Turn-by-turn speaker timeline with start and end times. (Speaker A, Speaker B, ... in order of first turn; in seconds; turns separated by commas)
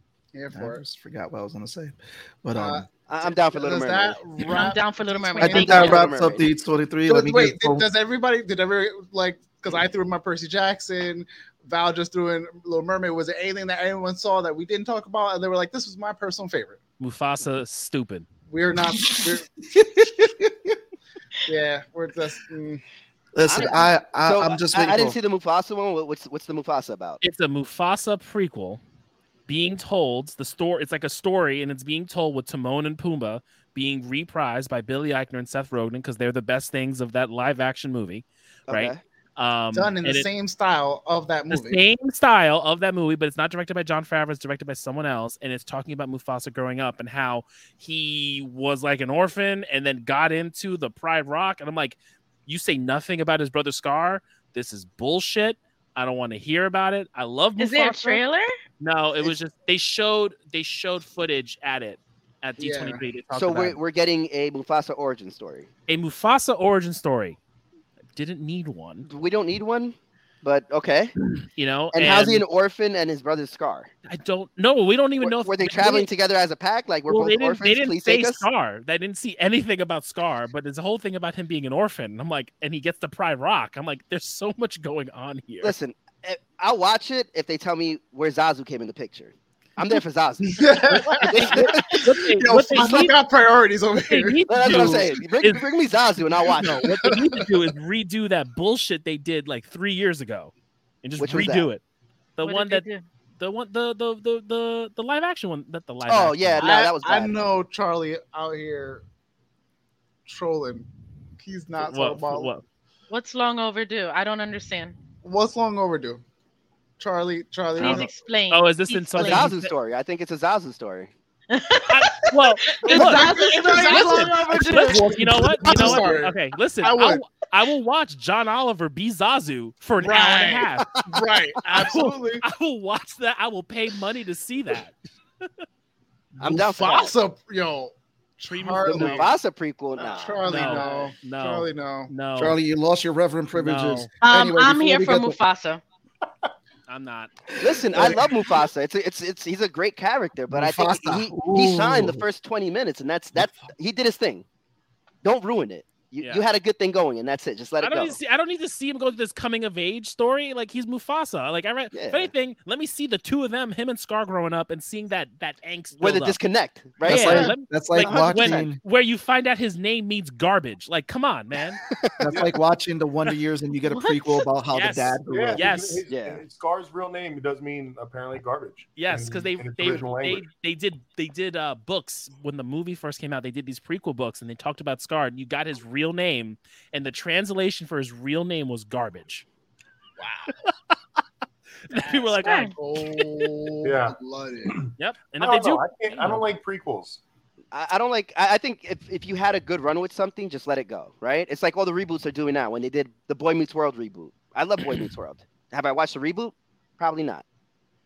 Speaker A: 0.3-0.8, Speaker B: 0.5-2.9, Speaker A: 2.6-6.1, Speaker C: 3.1-4.2, Speaker D: 4.5-6.0, Speaker B: 5.4-7.9, Speaker C: 5.5-6.5, Speaker A: 7.1-16.8, Speaker E: 17.0-18.3, Speaker A: 18.5-20.3, Speaker B: 19.1-19.4, Speaker A: 21.5-22.8, Speaker B: 23.4-25.2, Speaker C: 23.5-27.2, Speaker E: 27.2-28.8, Speaker E: 29.5-40.3, Speaker C: 38.7-39.0, Speaker A: 39.7-41.8, Speaker E: 41.5-58.2, Speaker D: 57.6-58.5, Speaker E: 58.8-63.8, Speaker A: 62.6-63.0, Speaker C: 63.3-65.7, Speaker E: 65.9-67.4, Speaker E: 68.2-69.1, Speaker C: 69.0-71.1, Speaker E: 71.6-72.4, Speaker C: 71.9-73.9, Speaker E: 74.1-76.1, Speaker C: 75.2-78.5, Speaker E: 77.1-85.8, Speaker C: 85.6-92.1, Speaker A: 90.4-95.2, Speaker E: 91.2-93.1, Speaker C: 92.8-93.0, Speaker E: 94.1-95.7, Speaker C: 94.5-96.8, Speaker A: 96.4-97.5, Speaker E: 96.5-100.5, Speaker E: 101.0-101.8, Speaker C: 101.2-101.7, Speaker E: 102.4-102.8, Speaker D: 102.4-103.0, Speaker E: 103.4-106.7, Speaker C: 106.1-107.4, Speaker A: 106.6-109.0, Speaker A: 110.3-110.9, Speaker A: 111.4-112.5, Speaker E: 111.8-112.6, Speaker D: 113.1-115.0, Speaker A: 115.2-116.2, Speaker A: 117.0-118.1, Speaker D: 117.7-119.5, Speaker E: 117.8-119.7, Speaker C: 119.2-121.1, Speaker D: 121.5-122.2, Speaker E: 121.9-130.9, Speaker A: 122.7-127.2, Speaker D: 122.8-126.0, Speaker A: 130.0-132.4, Speaker C: 130.8-131.1, Speaker E: 131.7-135.5, Speaker A: 136.4-139.3, Speaker C: 136.4-137.1, Speaker E: 138.5-139.3, Speaker C: 138.9-140.8, Speaker A: 140.0-142.1, Speaker E: 140.4-142.6, Speaker B: 142.4-145.4, Speaker E: 143.6-144.1, Speaker D: 144.2-145.8, Speaker E: 146.9-147.4, Speaker C: 147.6-154.5, Speaker B: 147.6-148.3, Speaker B: 150.5-152.2, Speaker B: 153.3-153.6, Speaker C: 155.2-158.2, Speaker E: 157.8-166.4, Speaker C: 161.9-162.3, Speaker C: 166.0-168.8, Speaker E: 167.0-171.8, Speaker B: 167.0-168.8, Speaker C: 171.9-172.4, Speaker B: 172.2-175.7, Speaker D: 173.9-174.5, Speaker E: 174.7-176.1, Speaker F: 175.3-180.5, Speaker C: 176.1-176.4, Speaker E: 179.0-189.4, Speaker A: 190.2-190.5, Speaker E: 191.9-193.5, Speaker A: 191.9-194.8, Speaker D: 192.4-192.7, Speaker F: 193.8-197.2, Speaker E: 195.0-196.4, Speaker C: 197.7-207.4